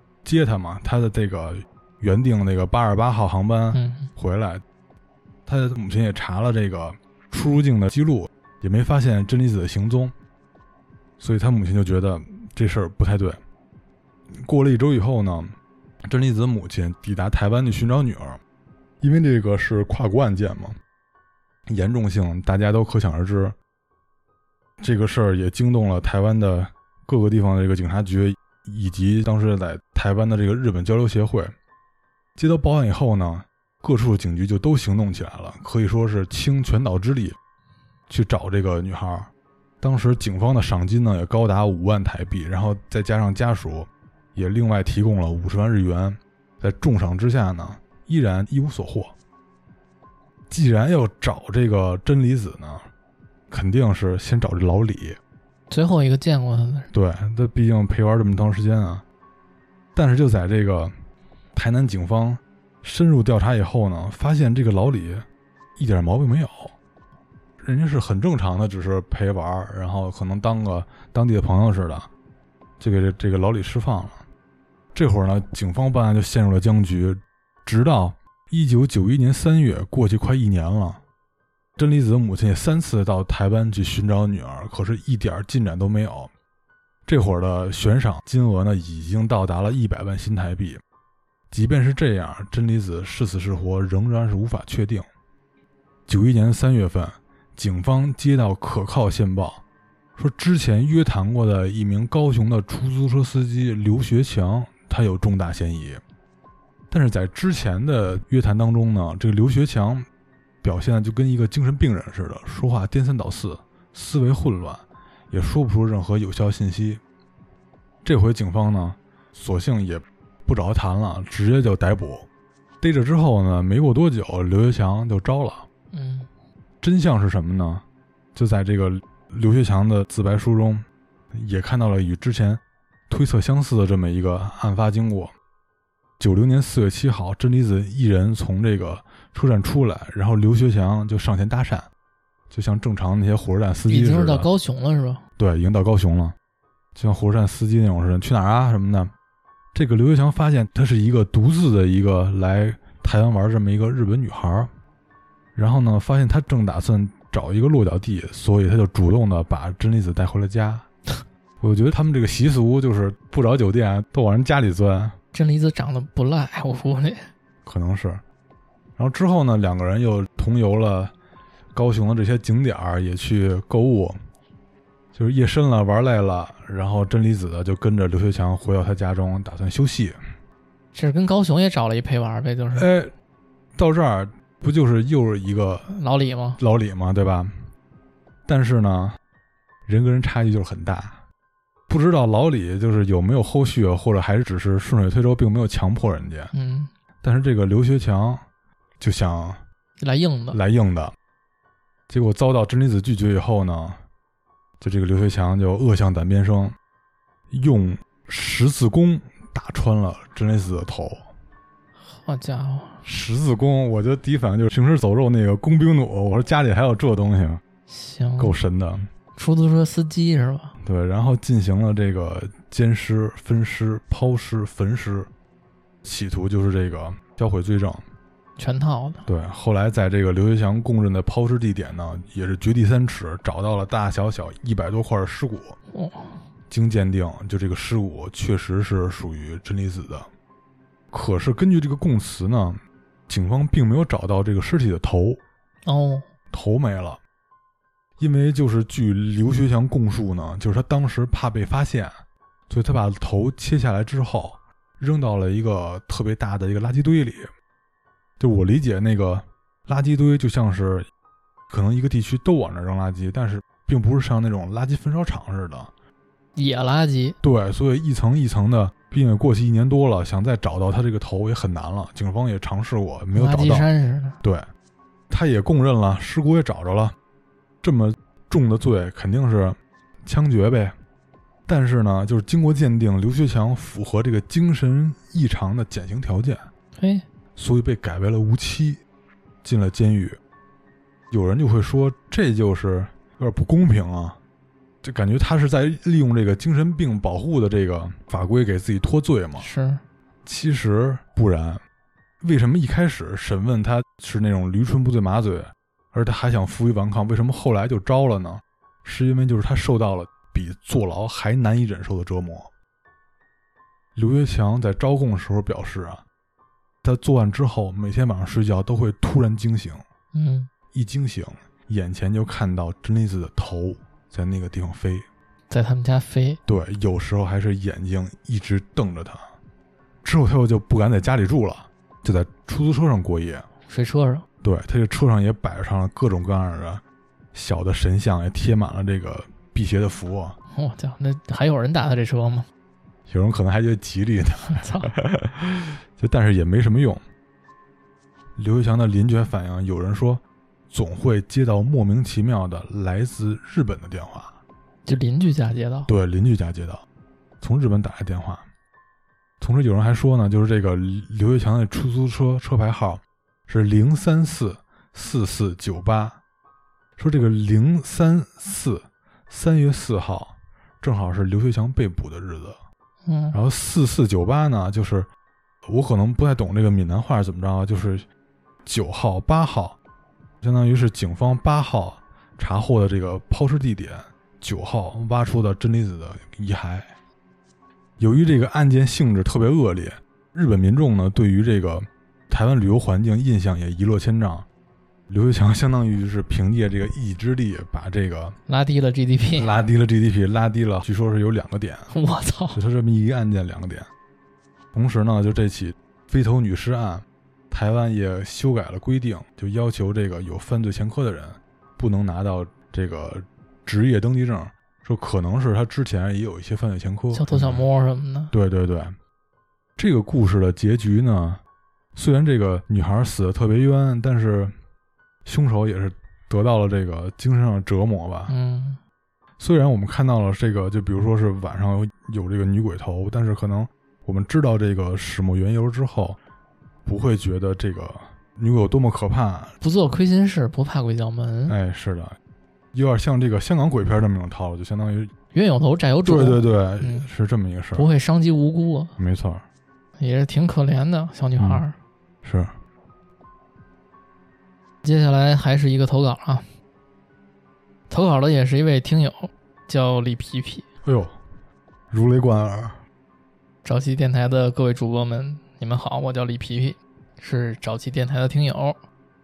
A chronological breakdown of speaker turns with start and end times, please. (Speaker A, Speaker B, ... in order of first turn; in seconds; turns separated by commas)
Speaker A: 0.2-4.6, Speaker B: 3.7-4.1, Speaker A: 5.5-10.1, Speaker A: 11.2-13.4, Speaker A: 14.3-15.5, Speaker A: 16.1-18.4, Speaker A: 19.0-20.8, Speaker A: 21.7-23.6, Speaker A: 24.8-31.5, Speaker A: 32.4-37.4, Speaker A: 38.1-39.3, Speaker A: 39.8-49.1, Speaker A: 50.5-52.9, Speaker A: 53.5-55.2, Speaker B: 55.7-56.9, Speaker A: 56.9-59.0, Speaker A: 59.9-60.9, Speaker A: 61.5-65.2, Speaker A: 65.8-66.7, Speaker A: 67.6-72.1, Speaker A: 72.8-74.2, Speaker A: 74.9-81.0, Speaker A: 81.8-86.3, Speaker A: 87.0-90.8, Speaker A: 91.5-95.0, Speaker A: 96.1-99.6, Speaker A: 100.2-106.0, Speaker A: 106.9-110.1, Speaker A: 110.6-117.0, Speaker A: 118.0-122.3, Speaker A: 122.8-125.7, Speaker B: 125.9-126.3, Speaker A: 126.8-127.8, Speaker A: 128.3-135.3, Speaker A: 136.2-141.9, Speaker A: 142.5-144.5, Speaker B: 143.9-145.2, Speaker A: 145.4-146.3, Speaker A: 146.9-149.1, Speaker A: 149.7-154.7, Speaker A: 155.5-160.8, Speaker A: 161.6-165.2, Speaker B: 165.3-167.2, Speaker A: 167.6-168.2, Speaker A: 169.0-171.1, Speaker A: 171.7-174.2, Speaker A: 175.1-180.2, Speaker B: 180.9-182.9, Speaker A: 182.7-183.1, Speaker A: 183.8-185.9, Speaker B: 185.9-186.6, Speaker A: 186.6-187.5, Speaker A: 188.4-189.2, Speaker A: 189.8-191.2, Speaker A: 191.9-196.5, Speaker B: 196.5-196.9, Speaker A: 197.2-198.4, Speaker A: 199.0-199.6, Speaker B: 200.0-200.6, Speaker A: 200.5-201.1, Speaker A: 202.1-204.0, Speaker A: 204.8-206.8, Speaker A: 207.5-211.3, Speaker B: 212.0-213.0, Speaker A: 213.0-217.6, Speaker B: 217.9-218.5, Speaker A: 218.4-219.1, Speaker B: 219.3-220.8, Speaker A: 220.8-225.3, Speaker A: 226.0-228.0, Speaker B: 228.6-229.2, Speaker A: 229.3-235.8, Speaker B: 235.9-236.4, Speaker A: 236.7-240.3, Speaker A: 241.1-245.4, Speaker B: 245.8-246.3, Speaker A: 246.5-247.2, Speaker A: 248.2-257.5, Speaker A: 258.4-261.1, Speaker A: 261.7-265.9, Speaker B: 266.5-267.4, Speaker A: 267.4-273.9, Speaker B: 273.3-274.4, Speaker A: 274.4-274.7, Speaker A: 275.3-277.1, Speaker A: 277.8-280.9, Speaker A: 281.7-286.6, Speaker B: 287.0-287.2, Speaker A: 287.6-289.0, Speaker A: 289.6-290.4, Speaker A: 291.3-294.4, Speaker A: 295.0-299.7, Speaker B: 299.6-300.0, Speaker A: 300.4-301.8, Speaker A: 302.4-312.7, Speaker A: 314.1-316.2, Speaker A: 317.0-320.0, Speaker B: 320.3-320.7, Speaker A: 320.9-325.2, Speaker B: 325.7-326.6, Speaker A: 326.6-329.4, Speaker A: 330.2-333.7, Speaker B: 333.9-334.4, Speaker A: 334.6-337.0, Speaker A: 337.5-340.6, Speaker B: 340.7-342.7, Speaker A: 343.3-347.2, Speaker B: 344.6-345.1, Speaker A: 348.6-354.6, Speaker B: 355.0-356.1, Speaker A: 356.1-357.0, Speaker A: 357.6-358.6, Speaker A: 359.6-366.4, Speaker A: 367.2-372.8, Speaker B: 373.2-373.6, Speaker A: 373.5-375.3, Speaker A: 375.9-378.2, Speaker A: 378.9-380.0, Speaker A: 380.6-387.1, Speaker A: 388.2-394.7, Speaker A: 395.3-398.6, Speaker B: 398.7-399.8, Speaker A: 399.6-402.1, Speaker B: 402.1-402.8, Speaker A: 402.7-404.1, Speaker A: 404.9-417.9, Speaker B: 417.3-418.5, Speaker A: 418.5-419.1, Speaker A: 420.0-421.6, Speaker A: 422.1-424.7, Speaker A: 425.4-428.5, Speaker B: 428.5-429.0, Speaker A: 429.6-436.4, Speaker A: 437.0-439.7, Speaker B: 439.8-441.8, Speaker A: 441.7-442.4, Speaker A: 442.9-445.3, Speaker B: 445.5-447.3, Speaker A: 446.2-448.1, Speaker B: 447.9-449.1, Speaker A: 449.2-449.6, Speaker B: 450.2-451.9, Speaker A: 451.6-451.8, Speaker A: 452.4-452.7, Speaker B: 455.0-456.6, Speaker B: 458.1-460.8, Speaker A: 461.0-461.4, Speaker A: 462.1-463.0, Speaker B: 463.8-469.0